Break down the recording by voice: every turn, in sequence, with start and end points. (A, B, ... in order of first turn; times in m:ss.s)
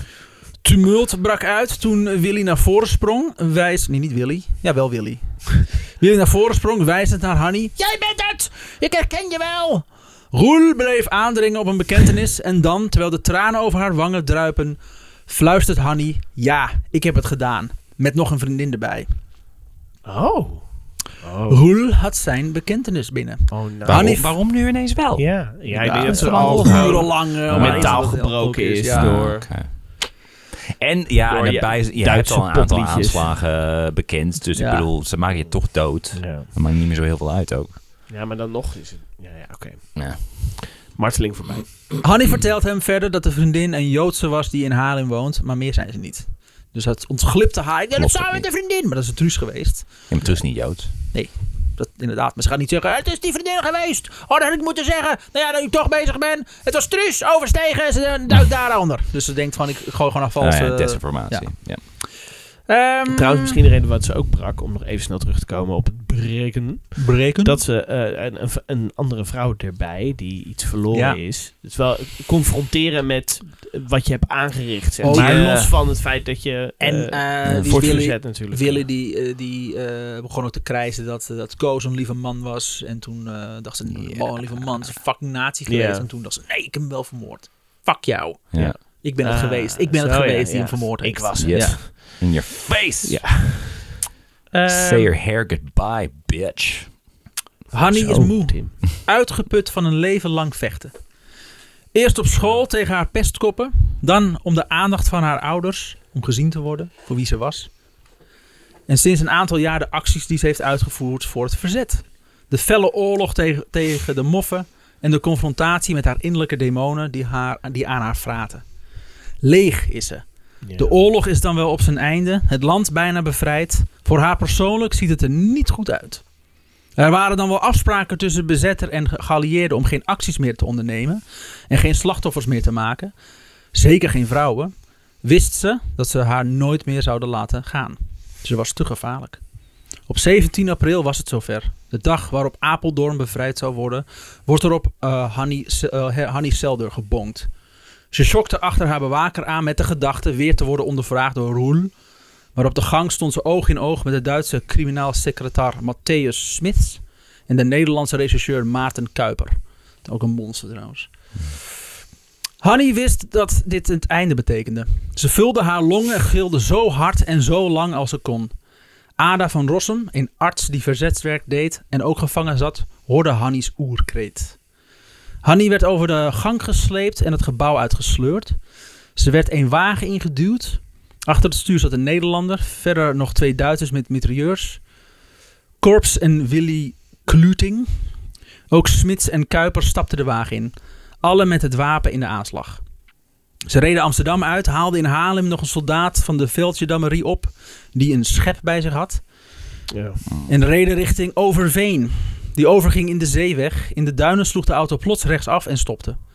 0:00.6-0:19.1 A
0:20.0-0:21.6 B
0:21.5-0:24.4 A
0:23.5-0:24.3 B
0:23.8-0:28.2 C
0:25.2-0:29.5 B
0:25.7-0:29.3 A
0:28.9-0:30.1 C
0:30.8-0:37.8 C
0:31.3-0:33.3 B
0:34.5-0:34.9 A
0:36.1-0:36.5 B
0:38.1-0:41.9 B
0:39.9-0:40.2 C
0:42.0-0:50.4 A
0:48.0-0:48.4 C
0:50.1-0:50.9 C
0:51.1-1:02.1 A
1:00.4-1:01.8 C
1:02.7-1:03.6 A
1:03.1-1:18.8 B
1:07.0-1:07.6 A
1:10.9-1:11.2 A
1:15.0-1:15.8 A
1:16.8-1:31.8 A
1:17.4-1:17.8 C
1:23.9-1:24.8 C
1:25.7-1:26.1 B
1:28.5-1:28.8 C
1:28.6-1:32.2 B
1:31.4-1:33.3 C
1:33.0-1:34.0 B
1:34.5-1:35.1 A
1:34.7-1:37.0 C
1:37.7-1:40.9 A
1:37.9-1:38.8 B
1:41.9-1:47.7 A
1:48.9-1:58.6 A
1:59.4-2:06.2 A
2:00.6-2:01.0 B
2:07.0-2:13.1 A
2:13.7-2:19.4 A
2:20.1-2:27.5 A
2:28.1-2:31.9 A
2:32.5-2:41.1 A
2:42.6-2:48.5 A
2:49.2-2:54.6 A
2:55.4-2:58.6 A
2:59.2-3:04.8 A
3:05.8-3:07.9 A
3:08.7-3:12.8 A
3:13.7-3:19.2 A
3:19.9-3:20.2 B
3:20.4-3:26.2 A